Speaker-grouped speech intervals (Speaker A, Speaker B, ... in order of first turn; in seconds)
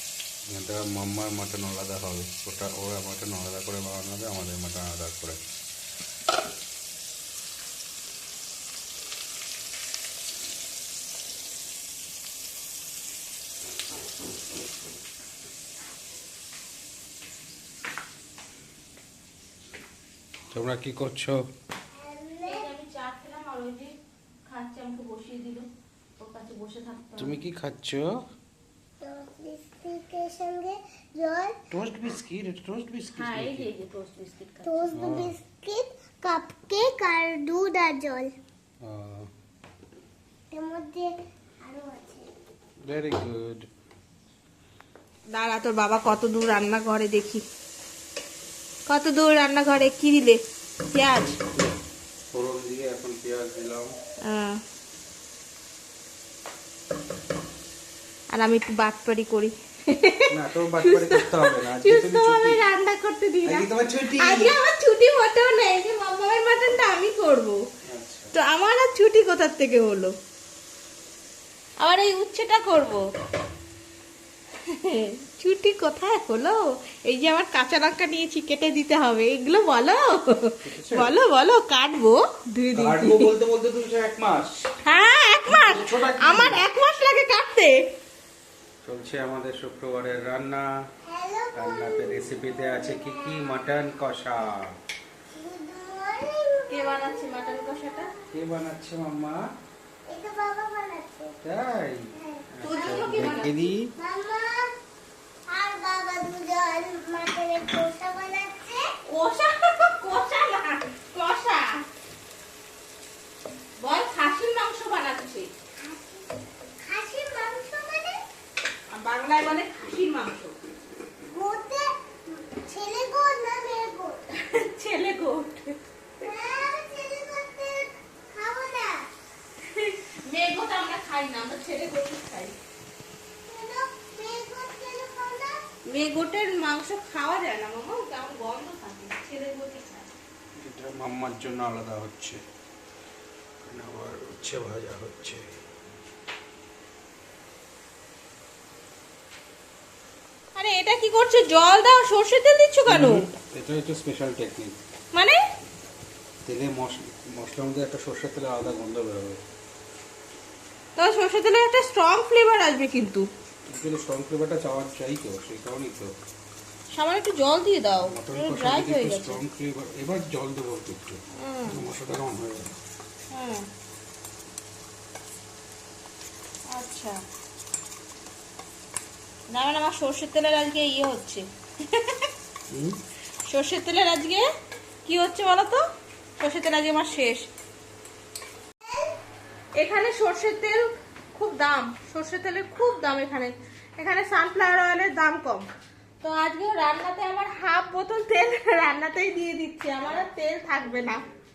Speaker A: 0.5-5.4, 20.5-21.4, 27.2-28.1, 31.7-33.7, 34.9-35.4, 38.8-39.3, 42.8-43.7, 51.3-51.8, 52.3-53.9, 60.3-62.7, 63.5-64.6, 67.8-68.3, 80.6-81.2, 82.7-84.7, 85.5-86.6, 88.8-90.7, 91.5-94.8, 98.3-99.4, 101.4-103.9, 140.6-142.4, 143.6-145.6, 152.9-154.8, 156.4-159.4, 163.7-166.1, 168.0-172.8, 182.7-183.0
Speaker B: 21.9-22.7, 29.0-31.6, 34.6-38.3, 40.5-42.3, 91.0-93.6, 95.3-98.3, 100.1-101.4, 102.2-104.7, 105.5-108.9, 115.8-118.2, 121.3-124.2, 126.2-129.1, 133.5-135.6
Speaker C: 22.4-27.4, 33.1-34.9, 45.3-47.4, 48.9-50.4, 50.9-51.4, 54.2-54.6, 58.3-67.6, 68.3-70.1, 71.8-73.1, 74.6-83.3, 84.8-87.8, 96.7-98.1, 102.6-103.6, 109.1-111.8, 113.8-115.5, 118.9-120.6, 124.3-125.8, 129.6-132.6, 135.9-140.1, 150.6-153.3, 155.1-155.4, 161.0-163.3, 166.9-169.4, 171.3-171.8, 173.3-173.7, 176.7-177.2, 179.5-182.3, 183.5-184.5, 185.1-185.8, 186.4-187.5, 189.8-195.7, 196.2-201.2